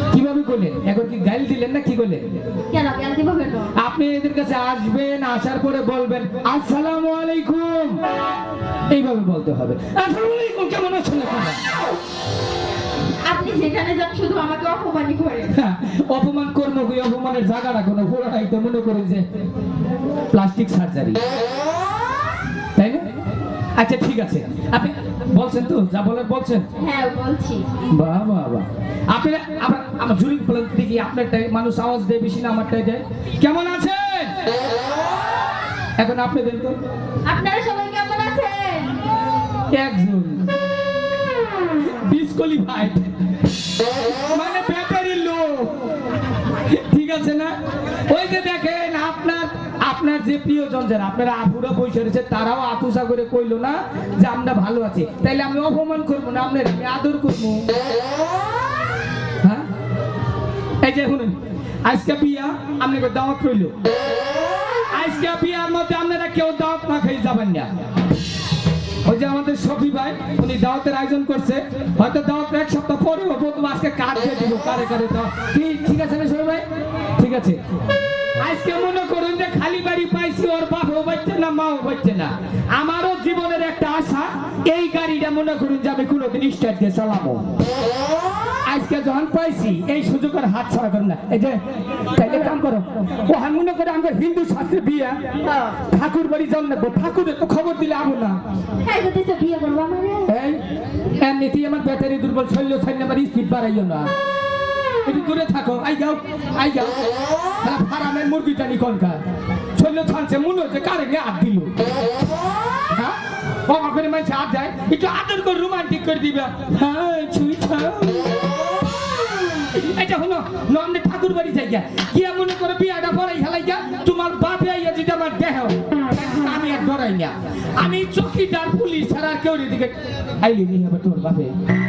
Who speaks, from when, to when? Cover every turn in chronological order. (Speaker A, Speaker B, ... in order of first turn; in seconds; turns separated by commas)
Speaker A: 0.1-2.2, Speaker B: 2.7-3.7, Speaker A: 3.8-8.0, Speaker A: 8.9-11.6, Speaker B: 13.2-15.5, Speaker A: 15.5-19.2, Speaker A: 20.3-21.2, Speaker A: 22.8-23.1, Speaker A: 23.8-26.6, Speaker B: 26.8-27.7, Speaker A: 27.9-34.3, Speaker A: 36.0-36.8, Speaker B: 37.3-39.0, Speaker A: 39.7-40.5, Speaker A: 41.8-43.1, Speaker A: 44.1-45.8, Speaker A: 46.6-47.5, Speaker A: 48.1-57.7, Speaker A: 60.8-61.4, Speaker A: 61.9-63.7, Speaker A: 64.9-67.7, Speaker A: 69.0-76.6, Speaker A: 77.2-77.6, Speaker A: 78.4-87.5, Speaker A: 88.7-91.6, Speaker A: 92.1-95.2, Speaker B: 95.5-95.8, Speaker A: 95.9-98.4, Speaker B: 98.8-100.3, Speaker A: 100.3-100.6, Speaker A: 101.2-104.1, Speaker A: 105.0-107.0, Speaker A: 107.6-109.2, Speaker A: 109.8-111.7, Speaker A: 112.9-118.4, Speaker A: 119.5-131.5